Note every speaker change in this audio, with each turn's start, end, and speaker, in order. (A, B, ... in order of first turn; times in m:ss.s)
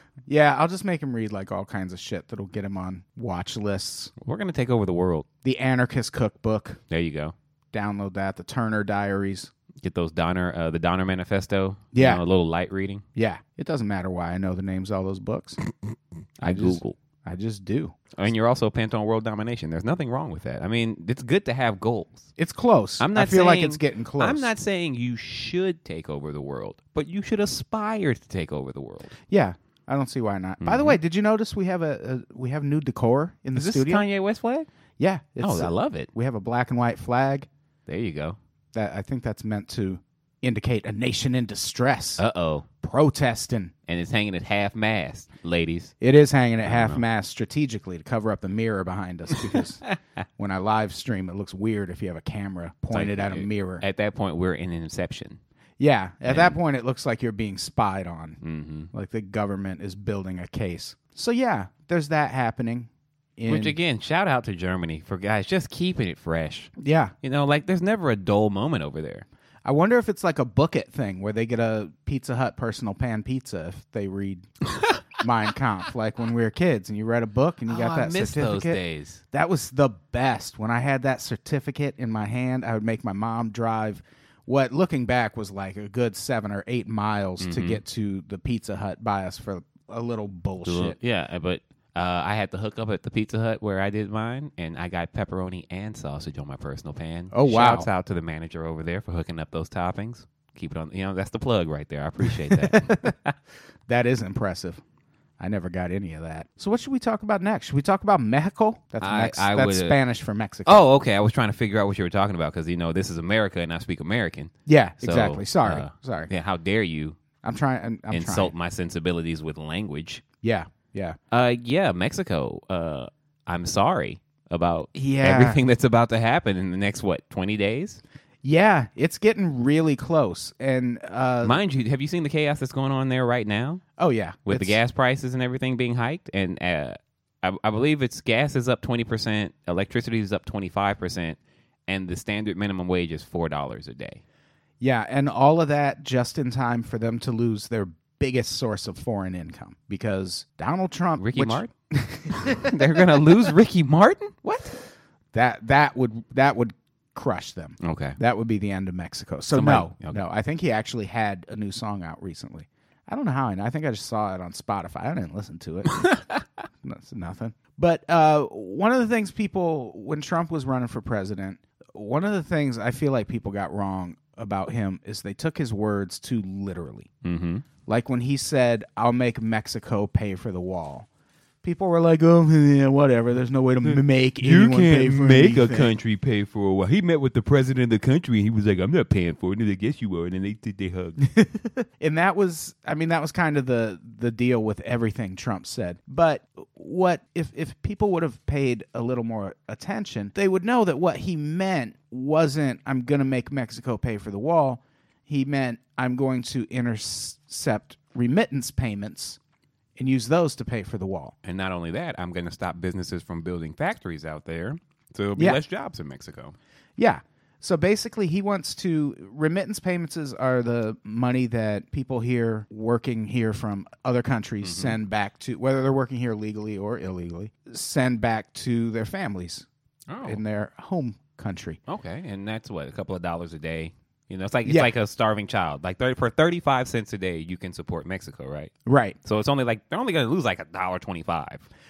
0:00.3-0:04.1 A
0:04.2-0:05.2 B
0:05.4-0:06.8 A
0:06.9-0:07.3 B
0:07.7-0:09.5 A
0:09.8-0:13.0 B
0:11.9-0:12.2 A
0:13.2-0:15.6 A
0:16.4-0:18.0 A
0:16.4-0:17.0 B
0:18.2-0:22.3 B
0:22.4-0:24.5 A
0:23.0-0:29.1 B
0:29.3-0:34.0 A
0:30.6-0:31.0 B
0:33.5-0:34.7 B
0:35.0-0:37.5 A
0:35.4-0:36.1 B
0:37.9-0:38.4 B
0:38.7-0:42.2 A
0:42.2-0:42.7 B
0:42.8-0:43.7 A
0:43.9-0:45.9 B
0:46.0-0:49.8 A
0:46.6-0:47.0 B
0:49.4-0:49.9 B
0:50.4-0:53.8 A
0:52.9-0:55.4 B
0:55.8-0:58.4 A
0:56.2-0:56.6 B
0:58.4-0:58.9 B
0:58.9-1:03.8 A
1:03.5-1:06.7 B
1:06.8-1:07.1 A
1:07.2-1:09.2 B
1:09.6-1:14.5 A
1:15.2-1:18.8 A
1:17.7-1:19.2 B
1:19.3-1:31.0 A
1:27.4-1:27.8 B
1:30.6-1:43.1 B
1:37.3-1:37.9 A
1:42.3-1:43.2 A
1:43.9-1:44.8 A
1:45.4-1:50.8 A
1:49.0-1:50.0 B
1:50.6-1:57.2 B
1:54.6-1:56.3 A
1:57.4-1:58.5 A
1:58.1-2:00.2 B
2:00.4-2:01.2 A
2:01.3-2:08.0 B
2:04.9-2:05.6 A
2:08.4-2:11.6 A
2:11.4-2:13.8 B
2:14.0-2:14.8 A
2:14.4-2:24.2 B
2:24.8-2:33.3 A
2:31.2-2:31.7 B
2:32.3-2:34.8 B
2:35.3-2:46.0 A
2:37.8-2:38.2 B
2:39.5-2:40.2 B
2:45.9-2:46.4 B
2:46.8-2:57.1 A
2:57.2-2:57.6 B
2:57.8-3:01.1 A
3:01.6-3:05.9 A
3:03.8-3:11.2 B
3:11.2-3:29.4 A
3:30.0-3:31.3 A
3:31.4-3:36.6 B
3:37.0-3:49.6 A
3:44.6-3:45.0 B
3:50.1-3:50.4 B
3:50.2-3:51.8 A
3:51.9-3:58.7 B
3:54.6-3:54.9 A
3:58.8-3:59.2 A
3:59.2-4:01.7 B